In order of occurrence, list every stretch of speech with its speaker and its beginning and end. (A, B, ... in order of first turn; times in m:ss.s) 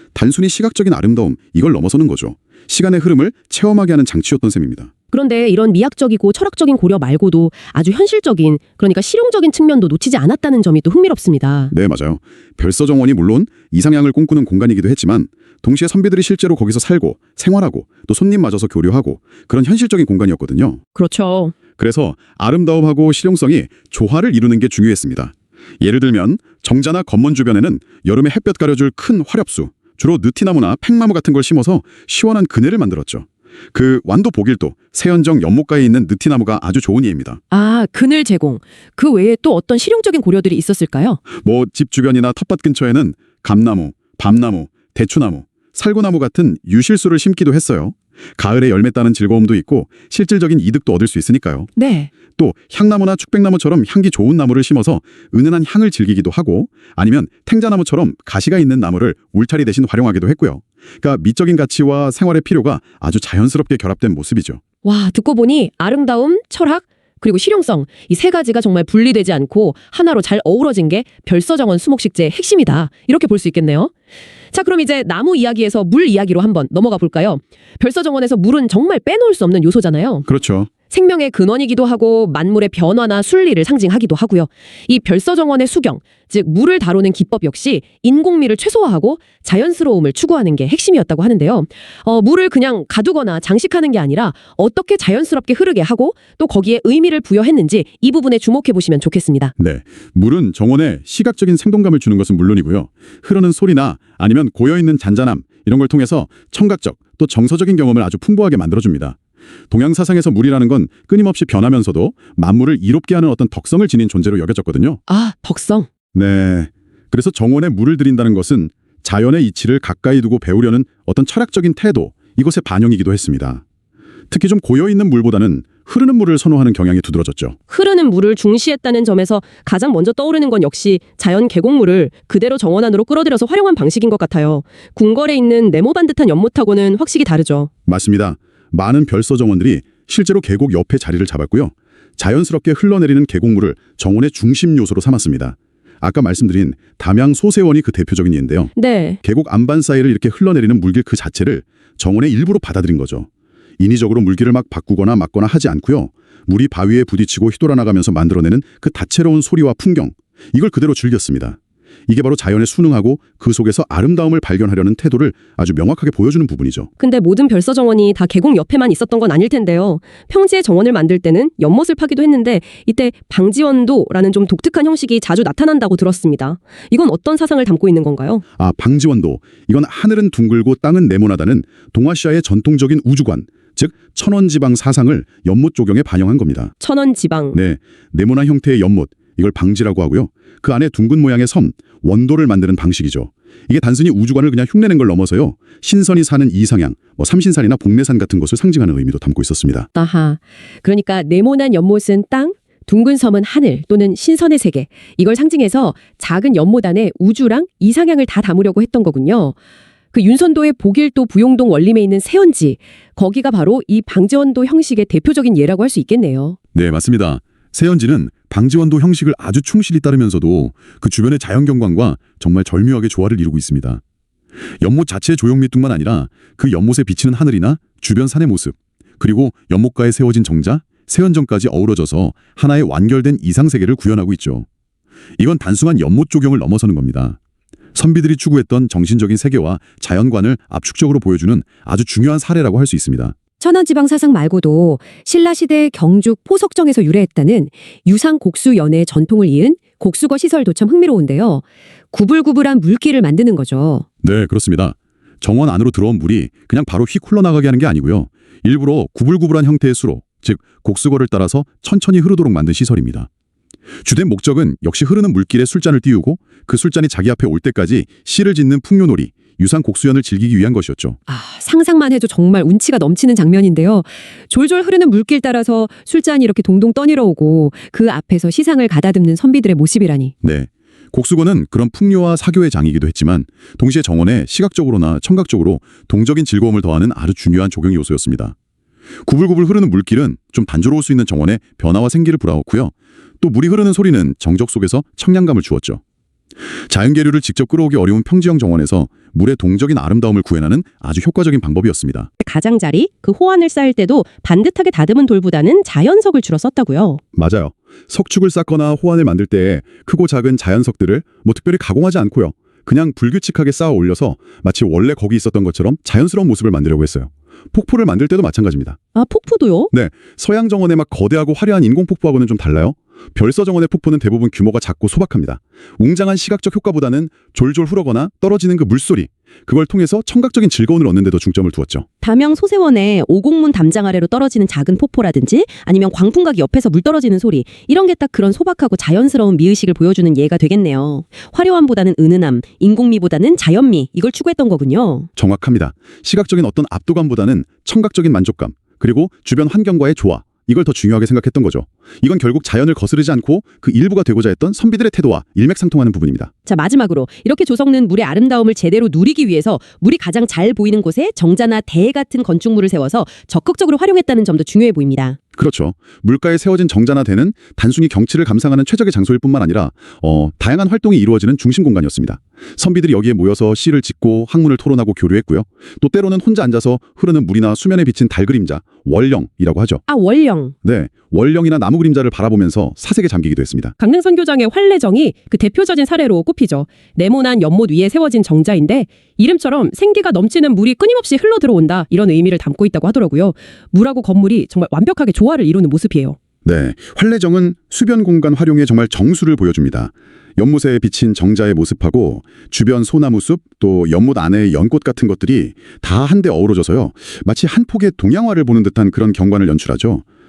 0:00.1-0:04.9 A
0:05.1-0:11.7 B
0:11.7-0:20.8 A
0:20.9-0:21.5 B
0:21.8-0:37.4 A
0:37.5-0:41.2 B
0:41.3-0:51.7 A
0:51.8-0:52.1 B
0:52.3-1:04.6 A
1:04.8-1:13.9 B
1:14.5-1:20.2 B
1:20.3-1:20.7 A
1:20.9-1:39.5 B
1:39.6-1:49.2 A
1:49.7-1:55.0 A
1:55.1-1:55.9 B
1:56.1-2:03.6 A
2:04.3-2:07.6 A
2:07.7-2:17.7 B
2:17.9-2:33.3 A
2:28.8-2:29.2 B
2:33.8-2:46.9 A
2:47.0-2:58.4 B
2:58.6-3:06.7 A
3:06.8-3:07.6 B
3:07.5-3:19.9 A
3:19.9-3:29.6 B
3:30.1-3:36.6 B
3:36.7-3:44.0 A
3:44.8-3:54.6 A
3:55.4-3:57.4 A
3:57.9-4:03.4 A
4:03.6-4:14.0 C
4:14.2-4:23.3 A
4:24.0-4:31.2 A
4:31.3-4:40.3 C
4:40.4-4:48.5 A
4:49.2-4:56.0 A
4:56.9-5:02.3 A
5:02.4-5:07.2 B
5:07.4-5:19.0 A
5:19.1-5:19.9 B
5:19.9-5:32.1 A
5:32.2-5:45.2 B
5:32.2-5:33.2 C
5:45.4-5:56.5 A
5:56.7-6:05.4 B
6:05.6-6:20.0 A
6:20.1-6:20.7 B
6:20.8-6:23.9 A
6:24.0-6:36.4 B
6:36.6-6:50.2 A